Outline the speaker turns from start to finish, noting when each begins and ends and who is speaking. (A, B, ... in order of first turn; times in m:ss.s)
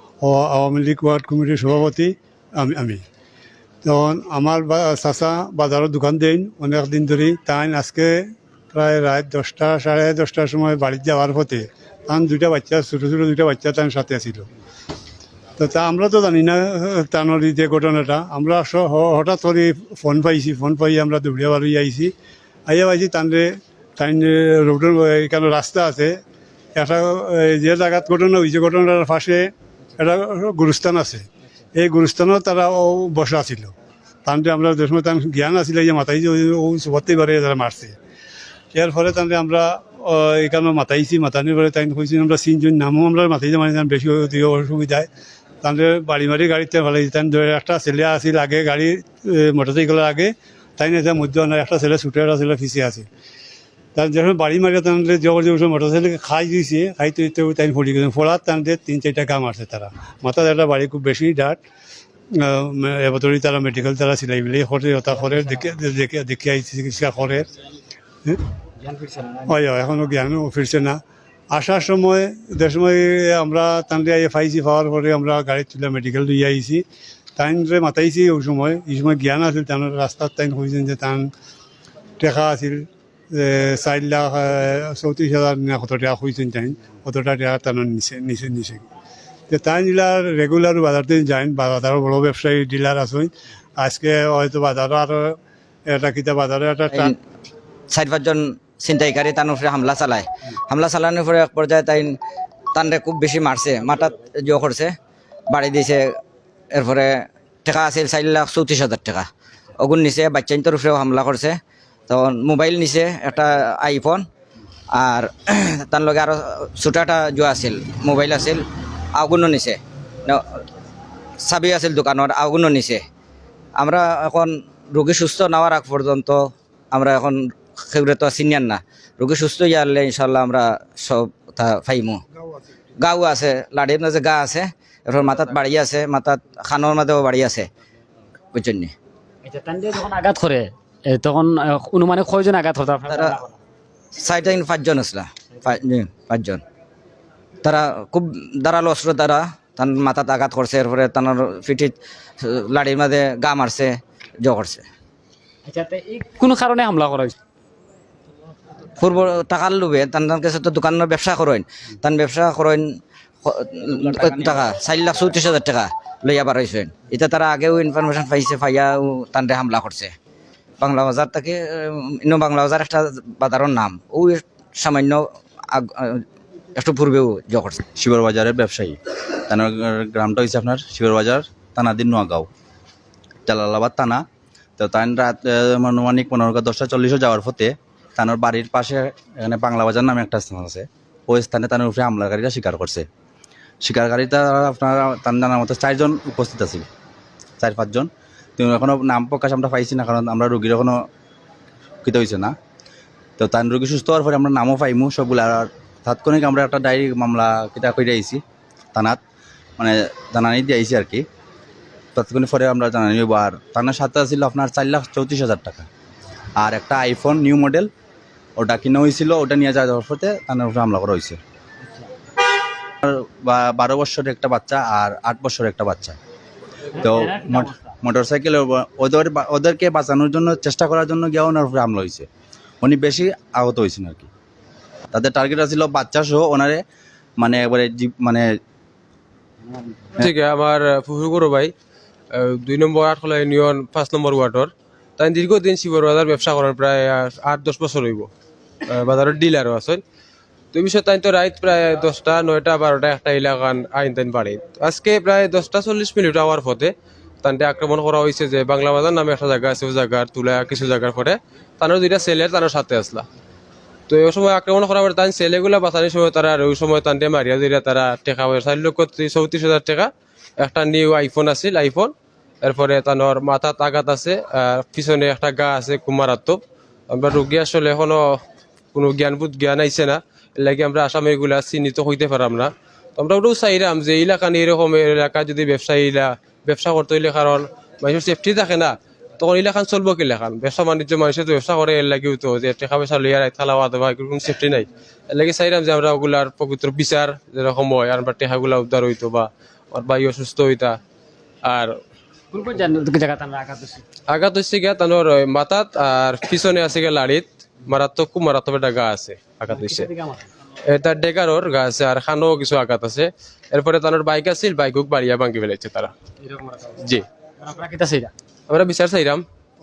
0:00.2-0:03.0 A
0:03.8-0:14.5 A
0:15.6-0:22.1 A
0:22.7-0:26.2 A
0:26.8-0:33.8 A
0:34.3-0:38.0 A
0:38.7-0:45.1 A
0:45.6-0:53.1 A
0:54.0-1:01.6 A
1:02.3-1:07.5 A
1:08.8-1:09.5 B
1:09.4-1:11.0 A
1:11.5-1:16.8 A
1:17.4-1:21.3 A
1:22.2-1:28.9 A
1:29.5-1:37.1 A
1:37.9-1:42.2 C
1:42.7-1:44.9 C
1:45.5-1:46.1 C
1:46.7-1:51.6 C
1:52.1-1:54.2 C
1:54.9-1:58.6 C
1:59.1-2:00.4 C
2:01.4-2:03.0 C
2:03.8-2:12.2 C
2:13.0-2:17.7 C
2:18.5-2:18.9 C
2:19.4-2:23.6 B
2:23.1-2:23.4 C
2:24.1-2:26.6 C
2:27.6-2:34.9 C
2:35.7-2:37.4 B
2:39.0-2:42.8 C
2:43.4-2:50.1 C
2:50.8-2:56.2 C
2:56.8-2:57.8 C
2:58.0-3:02.5 D
3:03.5-3:04.2 D
3:04.8-3:13.1 D
3:13.8-3:16.9 D
3:17.6-3:21.0 D
3:22.0-3:22.6 D
3:23.4-3:28.4 D
3:28.9-3:29.2 D
3:29.8-3:31.2 D
3:32.2-3:35.9 D
3:36.6-3:37.9 D
3:38.6-3:41.4 D
3:43.0-3:46.2 D
3:47.0-3:52.3 D
3:47.1-3:47.6 B
3:52.8-3:54.3 D
3:55.1-3:56.8 D
3:57.4-3:58.5 D
4:00.2-4:01.7 E
4:02.3-4:08.3 E
4:08.8-4:10.0 E
4:10.7-4:23.3 E
4:24.1-4:38.4 E
4:38.9-5:01.0 E
5:01.7-5:02.0 E
5:02.5-5:04.0 B
5:04.3-5:10.1 E
5:09.7-5:10.5 B
5:10.9-5:16.1 E
5:16.4-5:17.0 B
5:17.0-5:17.3 E
5:17.6-5:18.3 B
5:18.7-5:19.4 E